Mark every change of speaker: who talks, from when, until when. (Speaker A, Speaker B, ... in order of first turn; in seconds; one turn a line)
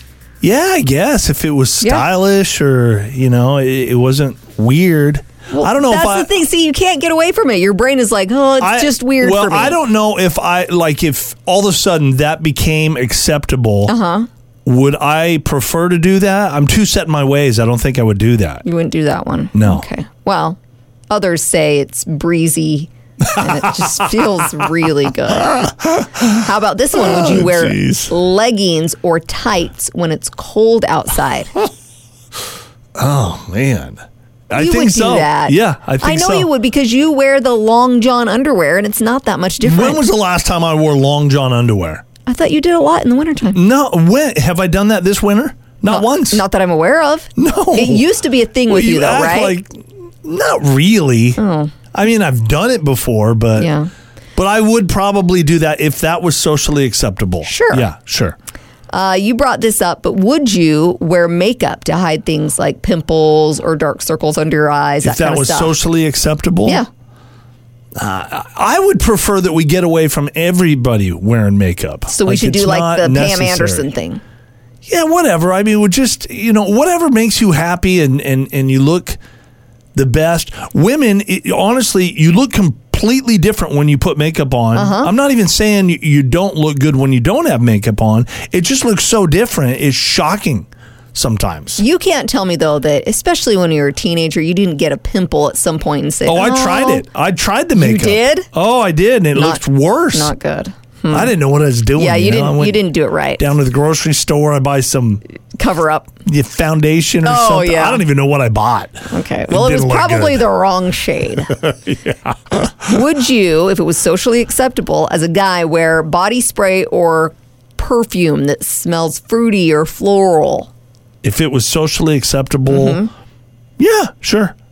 Speaker A: 0.4-6.3
Speaker B: 1.8-2.0
Speaker B: 5.5-9.8
Speaker A: 8.6-13.9
Speaker B: 13.9-14.3
Speaker A: 14.7-18.6
Speaker B: 18.6-20.6
Speaker A: 19.5-19.9
Speaker B: 21.1-25.6
Speaker A: 23.2-24.6
Speaker A: 25.4-28.1
Speaker B: 26.3-31.5
Speaker A: 33.0-36.5
Speaker B: 34.5-40.1
Speaker A: 39.6-42.0
Speaker B: 42.2-43.6
Speaker A: 43.5-46.4
Speaker B: 45.9-49.6
Speaker A: 47.4-48.0
Speaker A: 48.7-51.4
Speaker B: 51.4-51.7
Speaker A: 51.9-53.7
Speaker B: 53.6-53.9
Speaker A: 54.4-58.4
Speaker B: 57.4-57.9
Speaker B: 58.9-65.8
Speaker A: 65.0-66.8
Speaker A: 68.0-73.9
Speaker B: 72.1-74.2
Speaker A: 74.8-79.2
Speaker A: 79.9-91.8
Speaker B: 84.7-85.1
Speaker B: 91.8-97.0
Speaker A: 96.2-100.3
Speaker B: 97.8-98.5
Speaker B: 99.3-101.3
Speaker A: 101.1-102.8
Speaker B: 101.9-103.5
Speaker A: 103.4-105.2
Speaker B: 105.6-106.2
Speaker A: 106.2-110.5
Speaker B: 107.2-108.0
Speaker B: 109.1-111.5
Speaker A: 111.5-112.9
Speaker B: 112.8-120.7
Speaker A: 121.2-123.0
Speaker B: 122.7-123.1
Speaker A: 123.8-124.5